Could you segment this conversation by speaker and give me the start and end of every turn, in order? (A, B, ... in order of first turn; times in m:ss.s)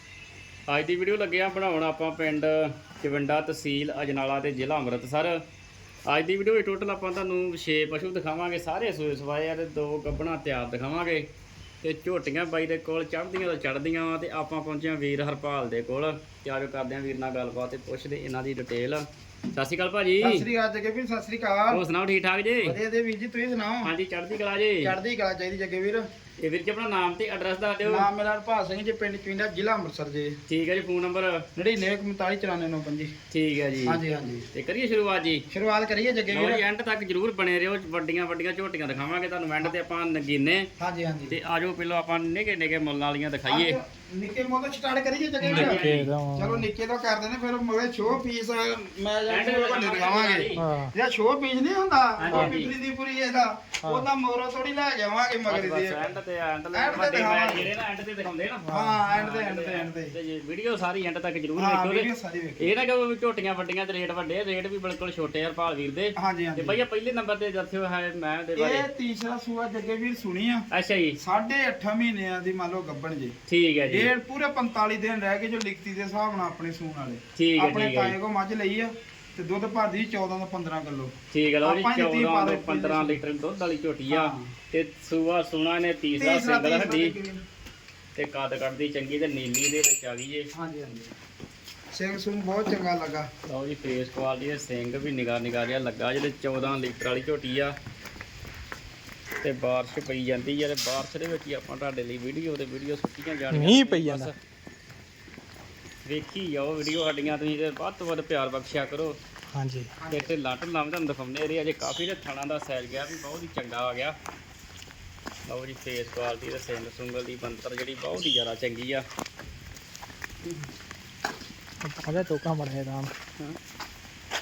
0:00.7-0:05.4 A
0:06.1-0:11.3 A
0:11.8-0:20.4 A
0:20.2-0:21.8 B
0:21.7-0:22.8 A
0:22.6-0:23.9 B
0:23.8-0:24.9 A
0:24.8-0:26.1 B
0:26.4-0:28.1 A
0:27.8-0:30.4 B
0:30.5-0:31.4 A
0:31.6-0:33.1 B
0:33.3-0:34.0 A
0:33.8-0:34.5 B
0:34.5-0:35.5 A
0:35.5-0:36.6 B
0:36.3-0:40.7 A
0:40.8-0:41.4 B
0:41.3-0:43.8 A
0:43.5-0:45.8 B
0:45.4-0:46.1 A
0:45.5-0:46.7 C
0:46.4-0:56.2 B
0:49.3-0:50.6 A
0:50.6-0:50.9 C
0:52.2-0:52.7 A
0:52.3-0:52.6 C
0:55.5-1:02.1 A
0:56.7-0:57.7 B
0:58.7-1:00.2 B
1:01.6-1:02.7 B
1:02.6-1:08.9 A
1:06.2-1:06.8 B
1:08.6-1:10.7 B
1:10.7-1:11.2 A
1:11.2-1:13.4 B
1:13.5-1:14.1 A
1:13.9-1:21.1 B
1:17.4-1:18.2 A
1:21.3-1:27.2 A
1:21.6-1:23.2 B
1:24.1-1:24.5 B
1:26.2-1:27.4 B
1:28.2-1:30.5 A
1:30.6-1:31.1 B
1:31.9-1:33.3 B
1:33.5-1:37.8 A
1:39.4-1:44.4 A
1:43.5-1:44.3 C
1:46.1-1:49.2 A
1:49.5-1:49.9 C
1:50.0-1:50.3 B
1:50.1-1:54.2 A
1:55.5-1:59.0 A
2:01.8-2:03.1 C